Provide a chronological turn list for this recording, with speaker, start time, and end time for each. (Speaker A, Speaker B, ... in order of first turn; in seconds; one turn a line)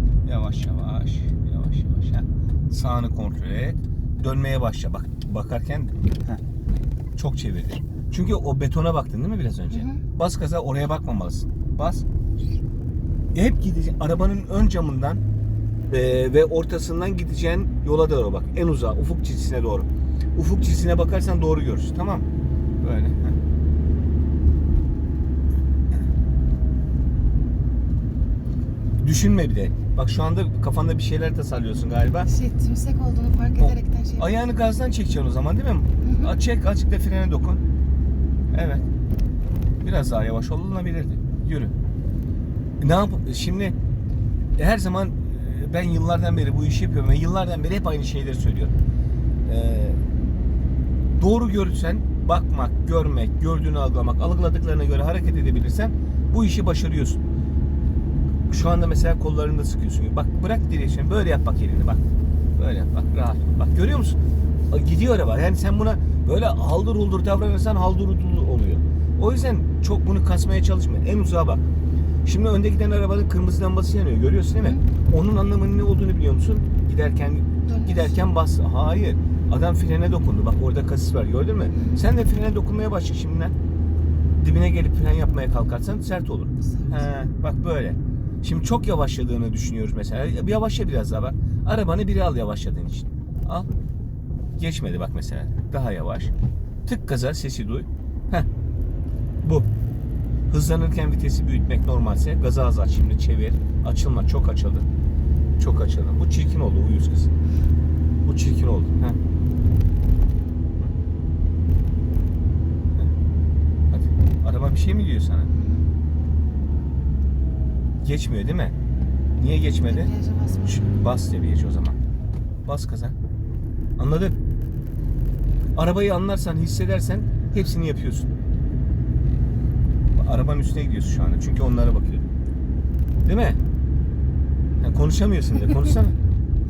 Speaker A: 0.2-6.4
Speaker A: 7.2-12.0
Speaker B: 9.7-10.0
Speaker A: 13.3-15.2
Speaker A: 15.9-22.3
Speaker A: 22.8-23.4
Speaker A: 29.0-32.3
Speaker B: 32.2-34.5
Speaker A: 33.6-37.6
Speaker B: 36.0-36.3
Speaker A: 38.5-38.9
Speaker A: 39.8-41.7
Speaker A: 42.8-43.7
Speaker A: 44.6-48.7
Speaker A: 49.4-50.0
Speaker A: 51.1-57.2
Speaker A: 58.5-62.0
Speaker A: 62.5-64.2
Speaker A: 64.7-71.6
Speaker A: 72.2-83.5
Speaker B: 77.6-78.2
Speaker B: 81.7-82.0
Speaker A: 84.4-93.7
Speaker B: 86.6-87.0
Speaker A: 94.6-96.3
Speaker A: 96.8-98.5
Speaker A: 99.4-99.7
Speaker A: 100.5-104.8
Speaker A: 105.6-107.3
Speaker A: 108.2-109.2
Speaker A: 113.9-115.5
Speaker B: 115.5-115.8
Speaker A: 118.0-118.7
Speaker A: 119.4-120.1
Speaker B: 119.8-120.9
Speaker A: 120.6-122.0
Speaker A: 122.6-123.1
Speaker A: 124.0-124.3
Speaker A: 125.7-128.3
Speaker A: 130.1-132.3
Speaker A: 133.2-133.6
Speaker A: 134.8-136.2